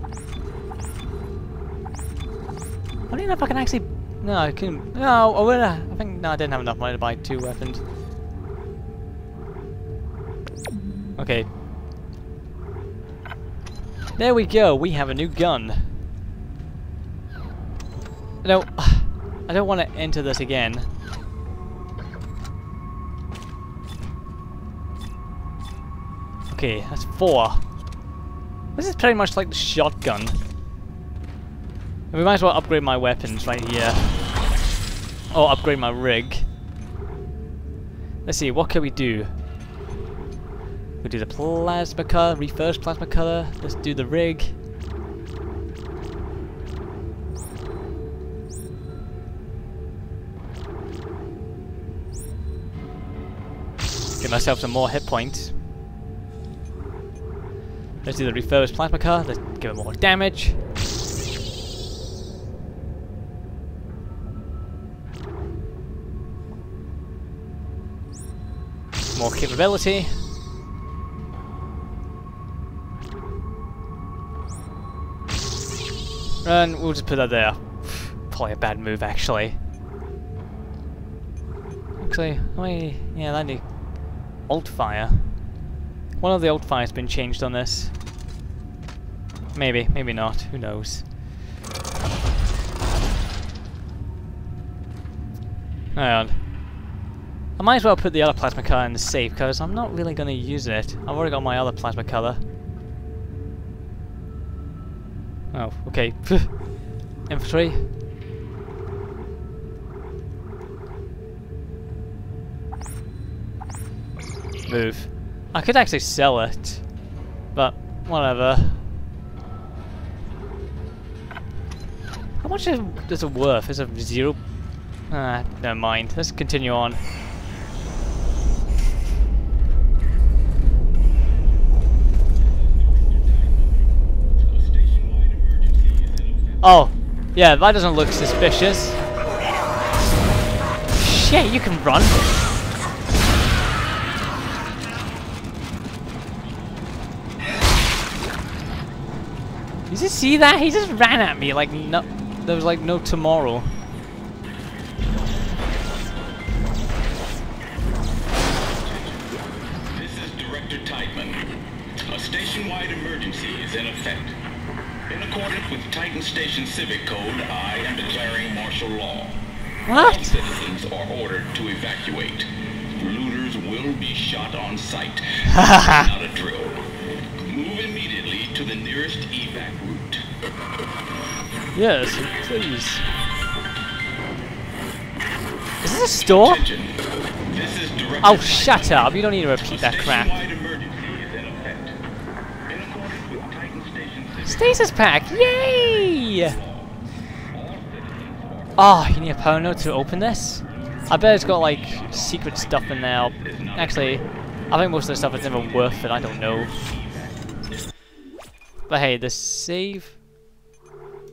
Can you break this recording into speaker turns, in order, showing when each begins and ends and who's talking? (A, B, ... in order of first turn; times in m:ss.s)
0:03.1-0:07.8 A
0:11.2-0:11.5 A
0:14.2-0:16.0 A
0:18.4-0:20.9 A
0:26.5-0:27.8 A
0:28.8-0:30.4 A
0:32.1-0:34.3 A
0:35.3-0:36.5 A
0:38.2-0:39.3 A
0:41.0-0:44.6 A
0:54.2-0:55.6 A
0:58.0-1:00.6 A
1:09.1-1:10.2 A
1:16.4-1:19.6 A
1:22.0-1:25.5 A
1:26.2-1:28.0 A
1:29.5-1:31.1 A
1:35.9-1:36.5 A
1:37.6-1:42.4 A
1:45.5-1:46.8 A
1:47.2-1:47.9 A
1:54.6-1:57.0 A
1:57.5-1:58.9 A
2:02.4-2:07.1 A
2:12.9-2:13.5 B
2:14.4-2:16.6 B
2:16.6-2:19.0 A
2:20.9-2:22.2 A
2:29.9-2:33.7 A
2:38.8-2:39.3 B
2:39.9-2:44.4 B
2:45.1-3:00.2 B
2:49.9-2:50.4 A
2:55.5-2:56.0 A
3:01.7-3:03.1 A
3:05.8-3:06.6 A
3:06.2-3:12.0 B
3:08.2-3:10.4 A
3:12.7-3:16.9 B
3:14.4-3:16.6 A
3:17.5-3:18.9 B
3:18.8-3:26.7 A
3:21.1-3:24.2 B
3:25.8-3:27.3 B
3:28.9-3:30.2 A